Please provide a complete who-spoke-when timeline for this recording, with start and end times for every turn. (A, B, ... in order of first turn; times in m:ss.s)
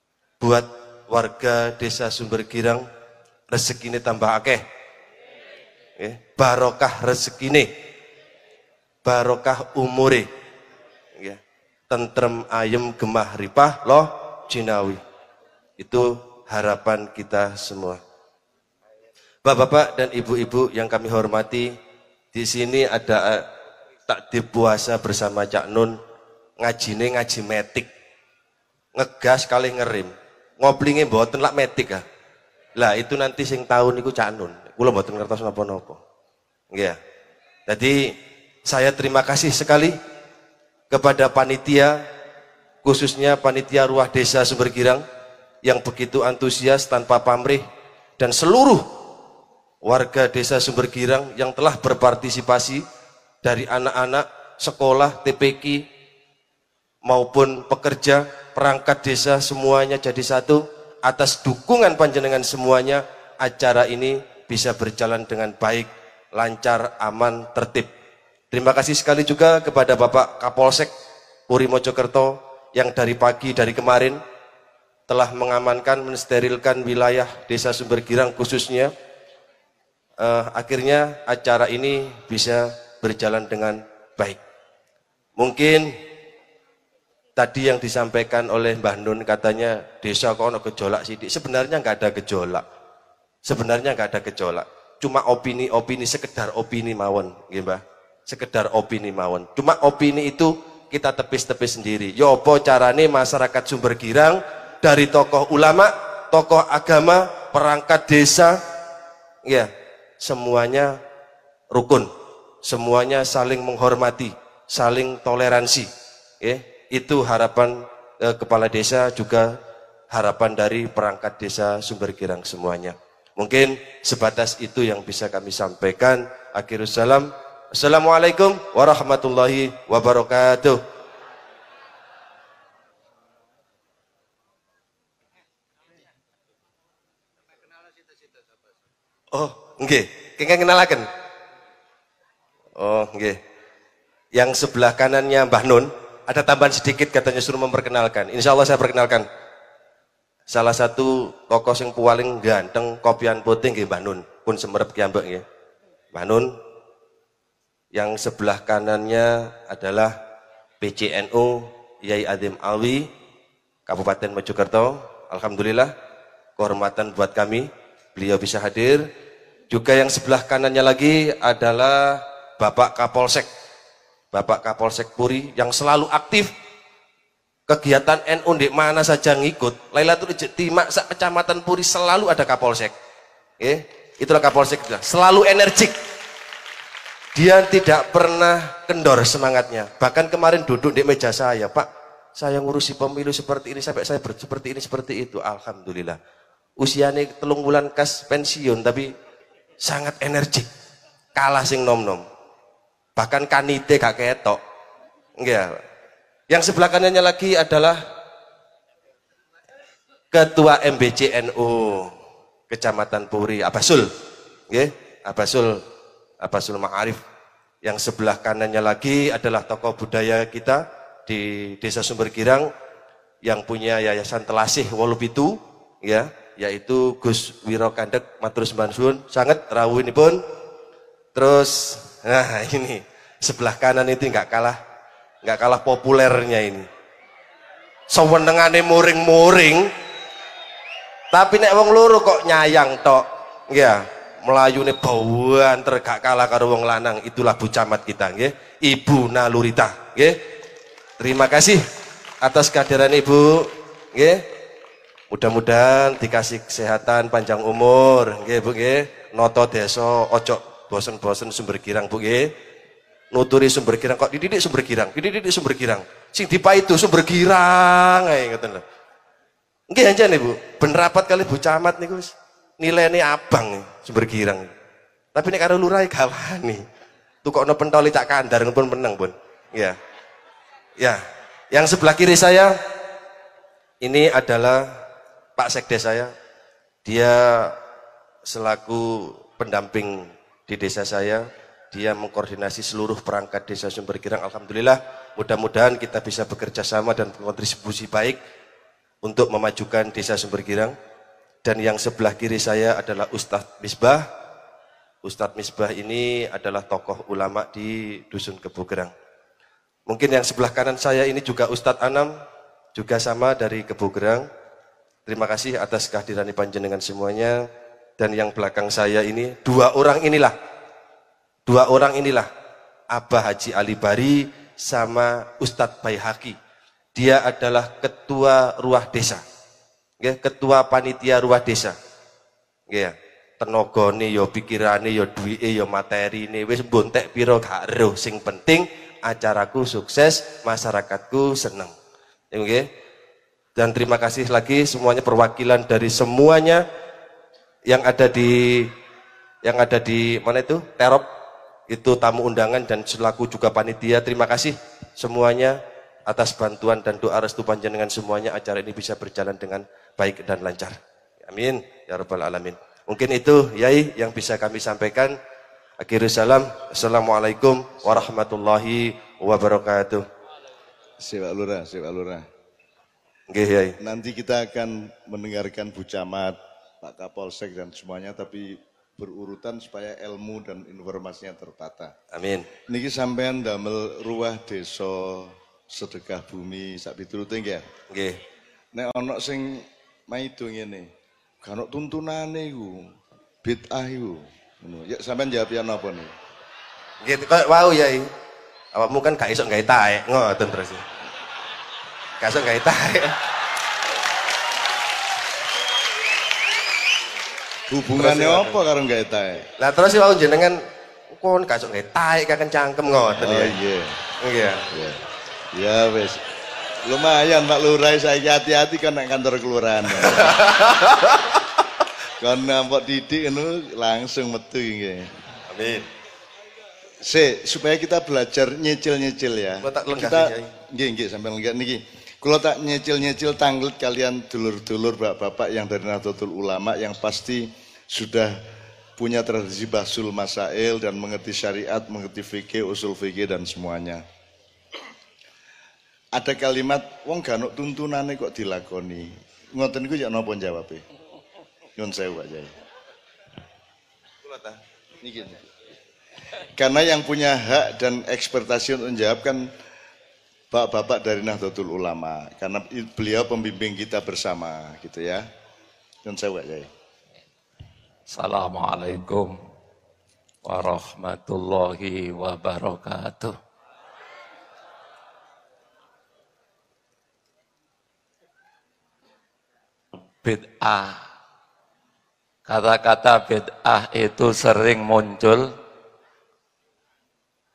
0:00.4-0:02.8 A
0:03.5-0:04.6 A
0:06.0-0:07.7 A
0:09.0-0:10.3 A
0:11.9-0:15.0 A
0:15.8-0:18.0 A
0:19.4-0:21.7 A
0:22.3-0:23.5 A
0:24.1-0:26.0 A
0:26.6-0:27.9 A
0:29.0-0:32.0 A
0:32.8-0:36.0 A
0:36.7-0:37.0 A
0:37.7-0:38.1 A
0:38.6-0:40.0 A
0:40.9-0:42.0 A
0:42.8-0:45.0 A
0:45.6-0:47.6 A
0:48.2-0:48.9 A
0:49.8-0:52.8 A
0:53.4-0:55.8 A
0:57.0-1:07.9 A
1:08.5-1:10.9 A
1:11.5-1:14.2 A
1:15.1-1:18.9 A
1:20.2-1:24.4 A
1:25.4-1:25.9 A
1:27.4-1:32.6 A
1:33.4-1:48.6 A
1:50.2-1:51.0 A
1:51.7-1:52.1 A
1:52.6-1:55.9 A
1:56.4-1:59.5 A
2:00.1-2:10.8 A
2:19.3-2:21.1 A
2:22.8-2:23.4 A
2:24.3-2:29.2 A
2:30.5-2:35.4 A
2:36.1-2:36.6 A
2:37.9-2:40.1 A
2:40.8-2:43.1 A
2:43.9-2:45.9 A
2:46.6-2:49.1 A
2:49.7-2:53.5 A
2:54.3-2:56.5 A
2:57.7-3:02.9 A
3:03.6-3:06.0 A
3:07.3-3:16.2 A
3:16.8-3:19.1 A
3:19.8-3:20.7 A
3:21.3-3:22.2 A
3:23.2-3:24.6 A
3:25.4-3:25.8 A
3:26.5-3:28.0 A
3:30.3-3:32.1 A
3:32.7-3:34.1 A
3:34.7-3:35.8 A
3:36.4-3:37.2 A
3:37.8-3:42.7 A
3:43.4-3:50.4 A
3:51.3-3:54.8 A
3:55.4-3:56.8 A
3:58.1-3:59.9 A
4:01.3-4:10.4 A
4:11.2-4:11.8 A
4:12.4-4:14.4 A
4:15.3-4:22.5 A
4:23.3-4:28.8 A
4:29.9-4:34.7 A
4:35.3-4:36.8 A
4:37.4-4:40.0 A
4:41.0-4:42.7 A
4:44.0-4:44.9 A
4:45.6-4:46.3 A
4:47.0-4:47.8 A
4:48.4-4:58.4 A
4:59.2-5:00.9 A
5:01.6-5:04.3 A
5:05.2-5:09.1 A
5:10.1-5:12.3 A
5:12.9-5:14.4 A
5:15.2-5:17.7 A
5:18.2-5:20.5 A
5:21.7-5:22.5 A
5:23.1-5:26.6 A
5:27.1-5:29.4 A
5:30.2-5:31.9 A
5:32.9-5:41.9 A
5:42.5-5:42.9 A
5:43.7-5:46.8 A
5:47.9-5:48.9 A
5:49.6-5:51.3 A
5:51.9-6:05.4 A
6:06.0-6:10.2 A
6:11.2-6:12.4 B
6:13.5-6:14.0 A
6:14.0-6:22.1 B
6:22.3-6:22.7 A
6:22.9-6:27.9 B
6:28.1-6:28.4 A
6:28.9-6:31.1 B
6:31.6-6:36.3 B
6:37.2-6:38.3 A
6:38.9-6:41.0 A
6:42.4-6:43.4 A
6:47.9-6:49.7 B
6:48.2-6:48.8 A
6:49.8-6:53.8 A
6:53.4-6:54.2 B
6:54.4-6:54.9 A
6:54.9-6:55.2 B
6:55.7-6:56.4 B
6:57.0-7:00.6 B
7:00.4-7:01.4 A
7:02.4-7:05.3 B
7:05.7-7:06.1 A
7:07.2-7:18.6 B
7:09.8-7:10.7 A
7:19.2-7:24.2 B
7:26.3-7:31.0 B
7:32.0-7:32.7 B
7:34.4-7:35.6 B
7:36.7-7:39.7 B
7:40.7-7:45.4 B
7:46.2-7:46.9 B
7:48.3-7:49.6 C
7:50.6-7:53.6 C
8:00.4-8:01.2 C
8:02.6-8:05.7 C